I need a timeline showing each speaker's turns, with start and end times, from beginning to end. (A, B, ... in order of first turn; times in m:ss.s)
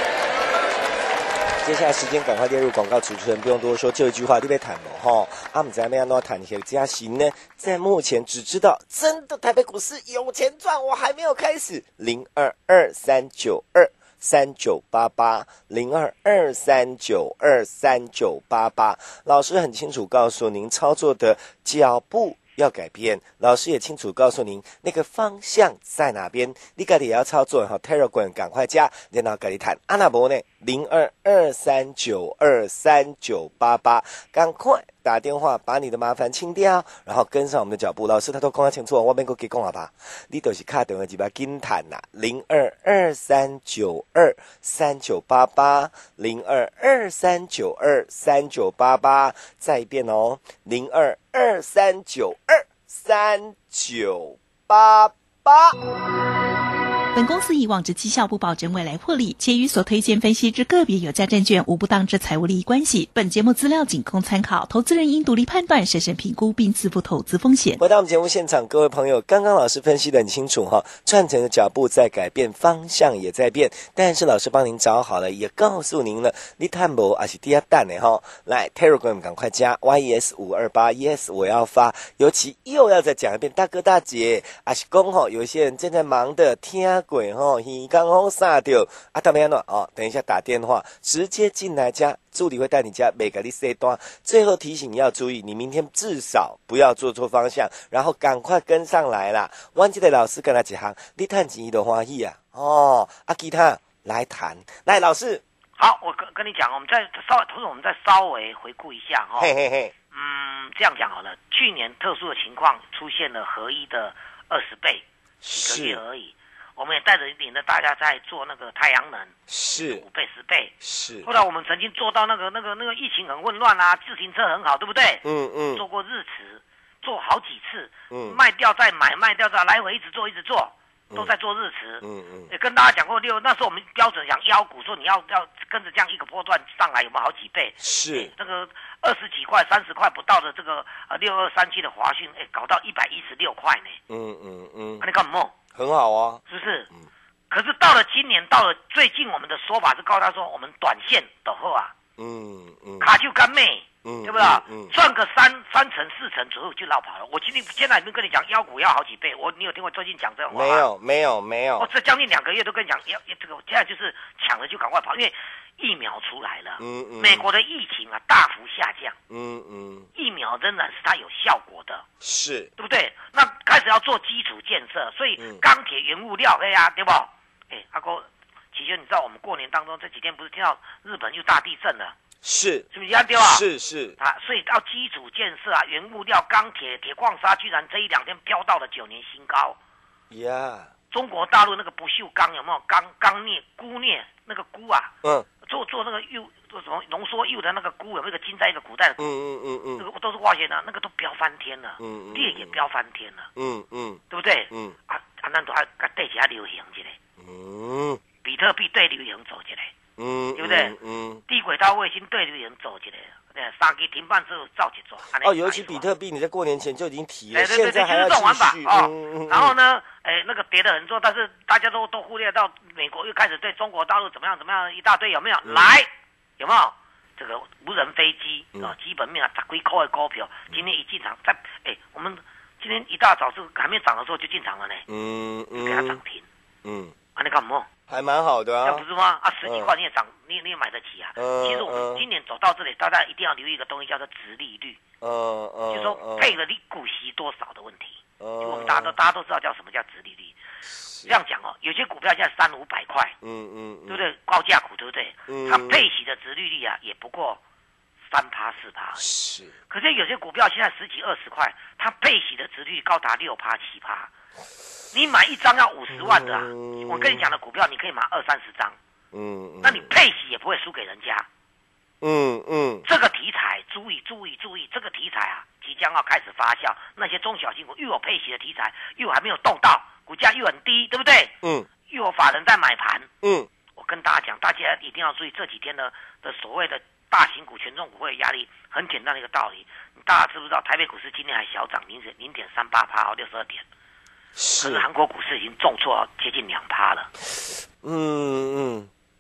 0:01.6-0:55.8 A
0:57.1-1:07.8 B
1:07.8-1:45.4 A
1:45.8-1:49.5 C
1:49.4-1:49.9 A
1:50.1-2:24.0 C
1:55.4-1:56.0 A
1:59.5-2:00.0 A
2:00.8-2:01.3 A
2:05.2-2:05.8 A
2:08.1-2:08.4 A
2:12.0-2:12.5 A
2:17.8-2:18.3 A
2:24.1-2:25.0 A
2:25.0-2:25.6 C
2:25.8-2:27.1 A
2:26.5-2:26.9 C
2:27.5-2:31.9 C
2:32.2-2:33.1 A
2:33.0-2:40.9 C
2:34.0-2:34.9 A
2:40.5-2:41.9 A
2:41.8-2:49.2 C
2:46.8-2:47.5 A
2:49.3-2:50.1 A
2:50.2-2:52.0 C
2:52.2-2:52.7 A
2:52.8-3:02.1 C
2:55.4-2:55.6 A
3:02.4-3:04.2 A
3:02.9-3:03.6 C
3:04.2-3:09.8 C
3:10.3-3:10.9 A
3:11.1-3:15.1 C
3:15.6-3:19.3 C
3:19.2-3:20.1 A
3:20.0-3:23.5 C
3:22.0-3:22.8 A
3:23.6-3:25.0 A
3:24.3-3:27.2 C
3:27.4-3:28.2 A
3:28.4-3:29.9 C
3:30.2-3:31.4 A
3:30.6-3:31.0 C
3:31.5-3:36.1 C
3:35.4-3:39.8 A
3:37.5-3:55.0 C
3:55.1-3:56.2 A
3:55.8-3:56.4 C
3:56.8-3:57.1 A
3:57.4-3:57.9 C
3:58.1-3:59.0 A
3:58.8-4:05.0 C
3:59.6-3:59.9 A
4:01.4-4:02.2 A
4:05.2-4:06.6 A
4:05.9-4:10.6 C
4:08.4-4:09.1 A
4:10.9-4:11.4 A
4:11.2-4:13.4 C
4:13.4-4:14.3 A
4:14.1-4:17.6 C
4:15.5-4:16.1 A
4:18.3-4:19.2 C
4:19.2-4:19.7 A
4:19.9-4:24.3 C
4:25.1-4:29.0 C
4:26.1-4:27.5 A
4:29.3-4:30.1 A
4:29.8-4:31.5 C
4:32.2-4:33.1 A
4:33.0-4:41.5 C
4:41.6-4:41.9 A
4:42.1-4:43.3 C
4:43.4-4:43.7 A
4:44.0-4:53.8 C
4:54.6-4:55.1 A
4:54.8-4:57.3 C
4:58.0-4:59.1 A